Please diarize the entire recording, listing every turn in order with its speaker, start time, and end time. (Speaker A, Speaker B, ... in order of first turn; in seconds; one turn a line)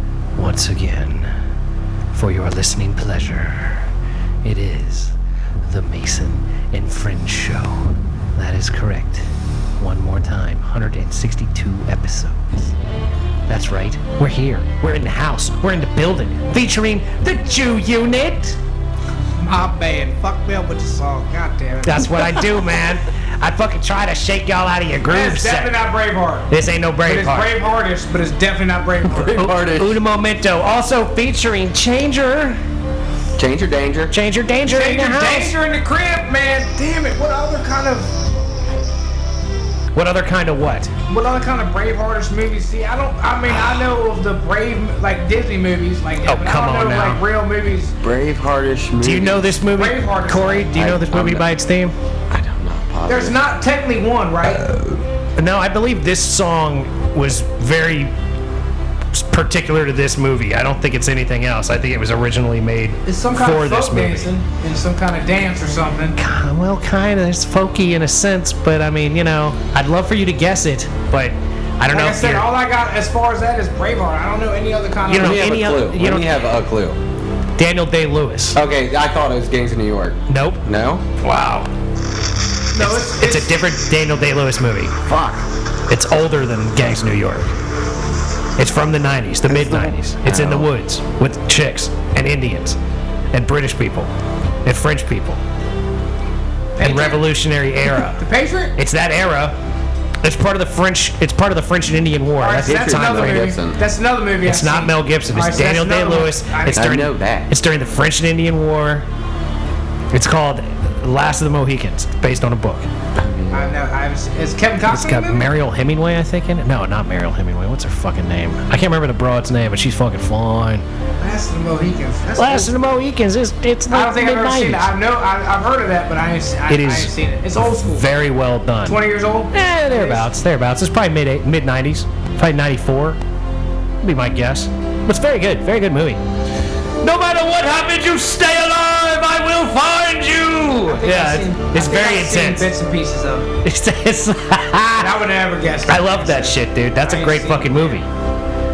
Speaker A: 0.4-1.3
Speaker A: 2.1-3.8
Speaker A: 4.4-9.2
Speaker A: 9.8-12.7
Speaker A: 13.5-18.6
Speaker B: 19.4-22.3
Speaker A: 21.8-25.8
Speaker B: 25.1-26.5
Speaker A: 26.5-27.5
Speaker B: 27.1-29.4
Speaker C: 29.1-30.0
Speaker A: 29.3-32.6
Speaker C: 33.4-34.1
Speaker A: 34.1-35.5
Speaker B: 34.7-38.1
Speaker A: 39.9-40.9
Speaker B: 41.1-47.9
Speaker A: 46.3-47.2
Speaker C: 48.0-49.5
Speaker A: 49.0-51.9
Speaker B: 49.7-50.8
Speaker C: 50.7-51.5
Speaker C: 52.3-53.4
Speaker B: 53.1-54.6
Speaker C: 54.5-55.0
Speaker A: 55.4-58.1
Speaker A: 59.1-64.3
Speaker B: 63.1-66.2
Speaker A: 66.2-72.5
Speaker B: 71.9-75.4
Speaker A: 75.1-76.4
Speaker C: 75.2-77.0
Speaker A: 77.6-78.6
Speaker C: 78.5-81.1
Speaker A: 80.3-80.6
Speaker A: 81.2-81.7
Speaker B: 82.7-83.6
Speaker A: 82.8-84.9
Speaker C: 85.1-85.4
Speaker A: 85.9-87.5
Speaker A: 88.6-92.8
Speaker C: 89.5-90.7
Speaker A: 93.3-94.1
Speaker A: 94.7-95.4
Speaker B: 96.8-97.3
Speaker A: 96.8-98.2
Speaker B: 98.1-98.7
Speaker A: 98.8-99.5
Speaker A: 100.2-103.5
Speaker B: 102.4-106.9
Speaker C: 102.6-103.8
Speaker A: 104.4-109.1
Speaker C: 106.7-107.5
Speaker A: 110.1-112.9
Speaker C: 113.2-113.7
Speaker B: 113.5-115.5
Speaker A: 114.9-120.8
Speaker B: 121.2-122.9
Speaker A: 122.4-124.9
Speaker B: 123.9-128.1
Speaker A: 126.7-129.0
Speaker B: 128.9-130.3
Speaker A: 129.5-133.2
Speaker A: 134.0-136.2
Speaker A: 137.0-142.7
Speaker B: 140.9-143.5
Speaker A: 143.7-145.1
Speaker B: 145.0-148.0
Speaker A: 145.9-148.1